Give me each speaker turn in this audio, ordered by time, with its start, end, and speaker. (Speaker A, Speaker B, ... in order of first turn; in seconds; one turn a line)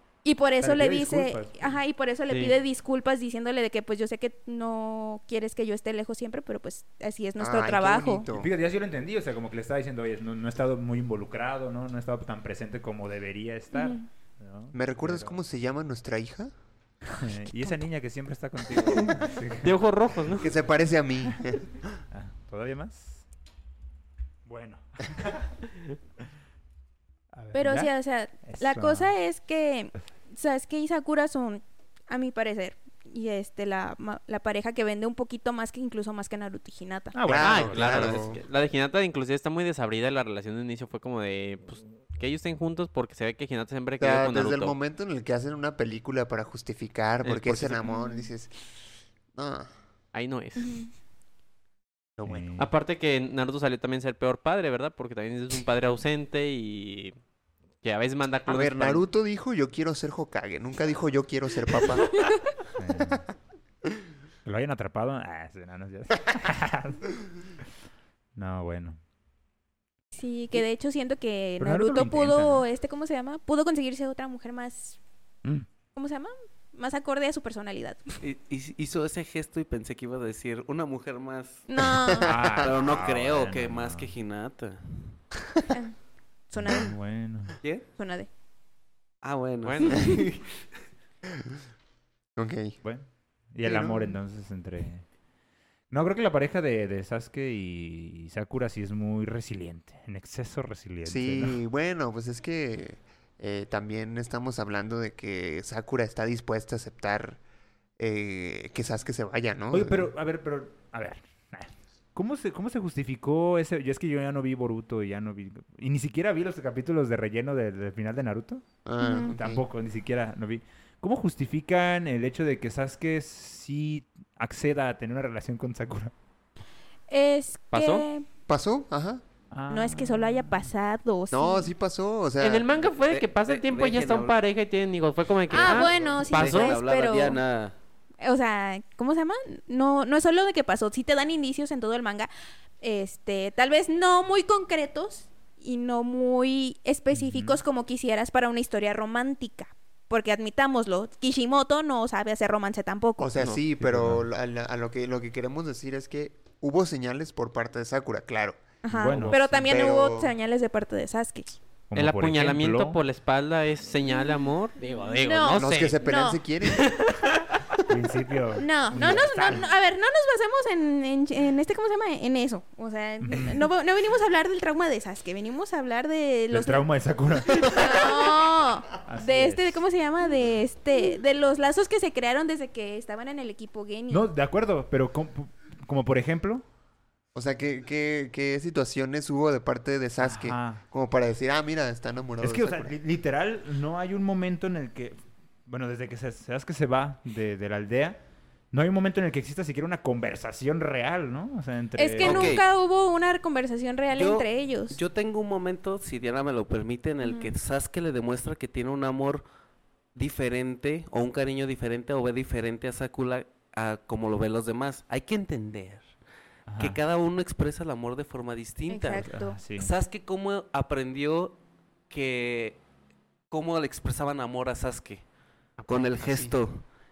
Speaker A: 0.2-8.2
Speaker B: 0.6-1.8
Speaker C: 2.3-2.5
Speaker D: 7.4-8.5
Speaker B: 8.3-15.4
Speaker A: 13.7-14.0
Speaker D: 14.7-16.5
Speaker B: 17.1-19.8
Speaker C: 19.6-20.5
Speaker D: 20.4-21.8
Speaker B: 22.1-23.2
Speaker B: 24.4-25.5
Speaker B: 27.3-27.9
Speaker A: 27.5-37.1
Speaker B: 28.4-29.1
Speaker B: 37.1-38.2
Speaker D: 37.2-38.4
Speaker C: 37.4-44.8
Speaker D: 44.0-48.5
Speaker C: 47.2-47.9
Speaker A: 47.9-48.3
Speaker D: 49.3-49.7
Speaker C: 50.1-50.8
Speaker A: 50.6-50.9
Speaker D: 52.2-52.5
Speaker B: 52.2-52.7
Speaker C: 52.6-57.1
Speaker C: 57.8-59.0
Speaker D: 58.5-62.2
Speaker B: 62.8-63.2
Speaker B: 64.4-67.1
Speaker B: 68.3-69.0
Speaker A: 70.1-75.0
Speaker B: 71.6-72.6
Speaker A: 76.0-78.2
Speaker E: 78.2-81.7
Speaker A: 81.7-82.3
Speaker D: 82.0-82.7
Speaker B: 82.2-84.1
Speaker E: 82.5-85.2
Speaker A: 85.7-86.0
Speaker A: 86.5-86.9
Speaker B: 86.6-87.6
Speaker E: 87.6-87.9
Speaker A: 88.0-88.3
Speaker E: 89.2-90.7
Speaker C: 89.6-90.0
Speaker A: 89.8-90.2
Speaker D: 92.4-92.8
Speaker B: 92.8-95.0
Speaker D: 93.6-94.2
Speaker B: 95.9-101.6
Speaker D: 101.0-107.4
Speaker D: 108.0-110.1
Speaker B: 109.7-118.6
Speaker D: 118.8-119.6
Speaker A: 119.0-119.3
Speaker B: 119.3-126.1
Speaker A: 127.1-128.2
Speaker C: 127.7-128.1
Speaker D: 128.5-129.2
Speaker B: 129.5-130.7
Speaker A: 129.7-131.7
Speaker D: 131.3-132.7
Speaker C: 132.4-136.8
Speaker E: 132.8-134.4
Speaker E: 135.5-137.7
Speaker A: 135.5-137.4
Speaker A: 138.2-153.3
Speaker B: 147.1-147.6
Speaker D: 153.2-158.6
Speaker B: 153.8-154.2
Speaker A: 158.8-161.6
Speaker B: 158.9-159.7
Speaker D: 159.2-160.3
Speaker B: 161.9-163.0
Speaker C: 161.9-166.0
Speaker A: 164.0-166.4
Speaker D: 165.6-166.9
Speaker C: 166.7-167.4
Speaker B: 167.8-169.7
Speaker A: 168.6-176.8
Speaker B: 173.2-173.7
Speaker B: 176.5-178.3
Speaker A: 177.5-184.3
Speaker B: 179.0-179.8
Speaker B: 184.1-186.6
Speaker D: 187.3-192.9
Speaker B: 190.2-190.8
Speaker B: 192.4-198.2
Speaker B: 198.7-202.6
Speaker A: 202.0-205.0
Speaker E: 202.2-202.7
Speaker E: 204.1-209.4
Speaker A: 207.2-207.5
Speaker E: 210.1-216.0
Speaker B: 216.7-217.0
Speaker E: 216.8-221.6
Speaker A: 218.9-219.6
Speaker B: 219.2-219.9
Speaker E: 222.1-222.8
Speaker E: 223.5-225.2
Speaker E: 225.8-226.8
Speaker D: 226.2-226.5